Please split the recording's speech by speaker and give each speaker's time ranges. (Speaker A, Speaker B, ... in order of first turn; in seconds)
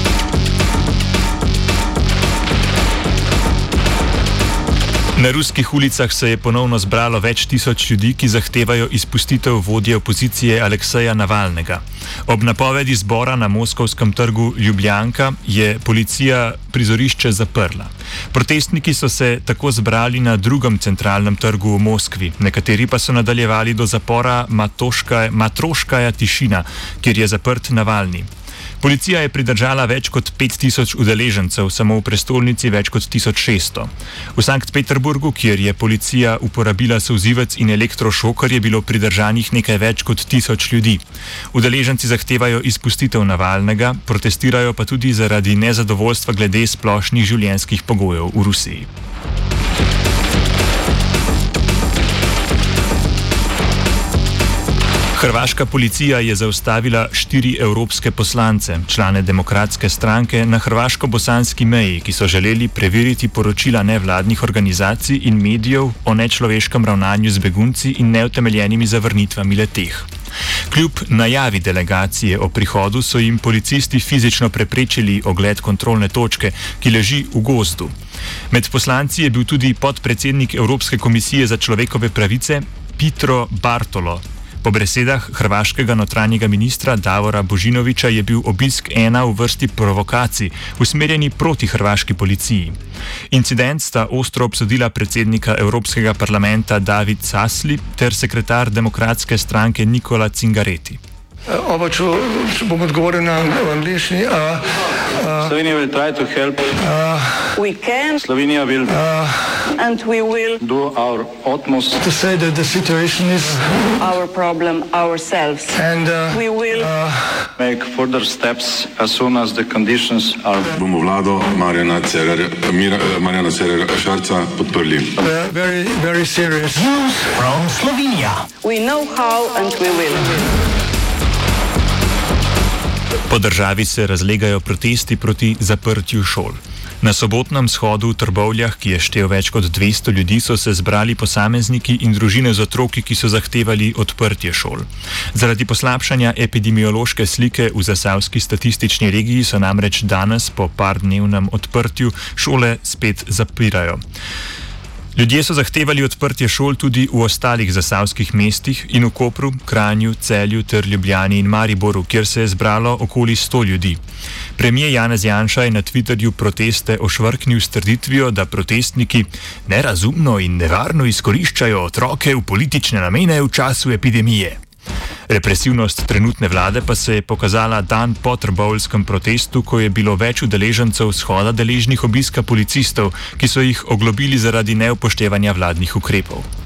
Speaker A: 5.2-48.9, 55.1-70.1, 70.7-77.9, 78.5-92.8, 93.3-101.0, 133.3-154.0, 155.1-164.0, 164.6-174.6, 175.3-186.5
Speaker B: 101.5-105.5, 106.7-107.5, 108.9-109.6, 112.0-114.0, 115.7-117.4, 125.2-127.9
Speaker C: 105.5-106.7, 108.2-109.0, 110.6-112.0, 117.6-120.7
Speaker D: 107.5-108.2, 109.7-110.6, 114.0-115.8, 116.3-116.9, 128.4-130.3
Speaker E: 120.7-125.2